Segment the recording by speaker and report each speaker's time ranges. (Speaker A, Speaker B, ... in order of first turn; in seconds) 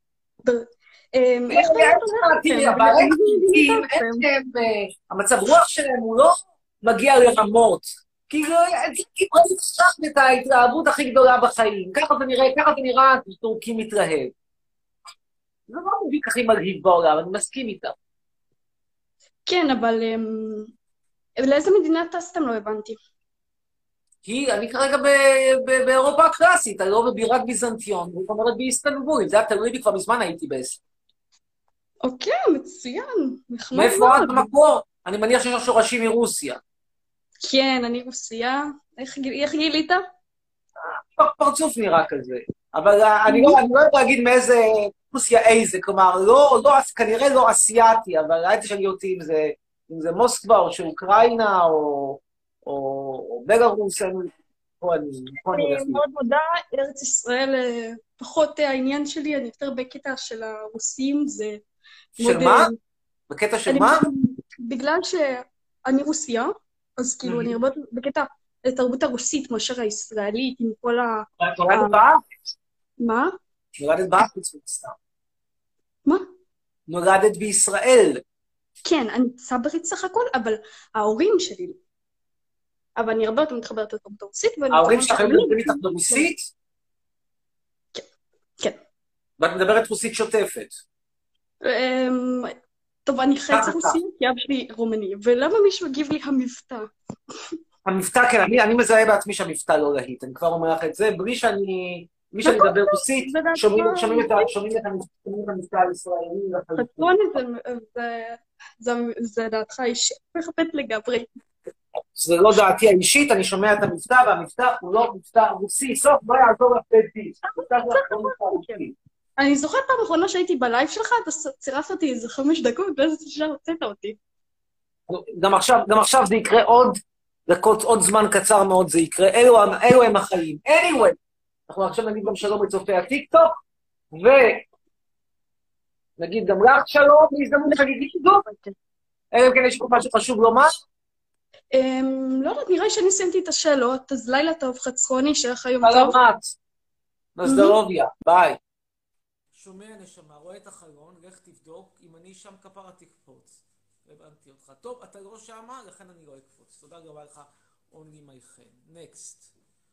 Speaker A: 0.5-4.3, 19.5-20.7, 21.4-23.0, 32.0-34.5, 37.4-40.1, 43.3-43.6, 55.5-61.6, 62.2-62.8, 63.7-72.0, 73.0-73.4, 78.8-81.8, 83.0-86.3, 91.6-97.6, 102.4-104.5, 106.8-111.3, 117.6-118.8, 119.4-124.2, 141.7-146.2, 147.4-147.8
Speaker B: 1.5-14.3, 15.7-17.9, 24.2-30.8, 33.7-36.6, 40.8-56.0, 62.2-62.7, 63.3-64.0, 67.2-67.6, 71.4-72.2, 73.8-75.0, 76.9-78.2, 84.7-86.5, 89.4-90.7, 93.5-94.0, 97.8-107.2, 112.2-118.9, 125.1-131.2, 131.7-133.6, 134.1-134.7, 136.2-138.5, 139.3-140.7, 145.8-146.5, 147.4-148.6
Speaker C: 149.5-159.5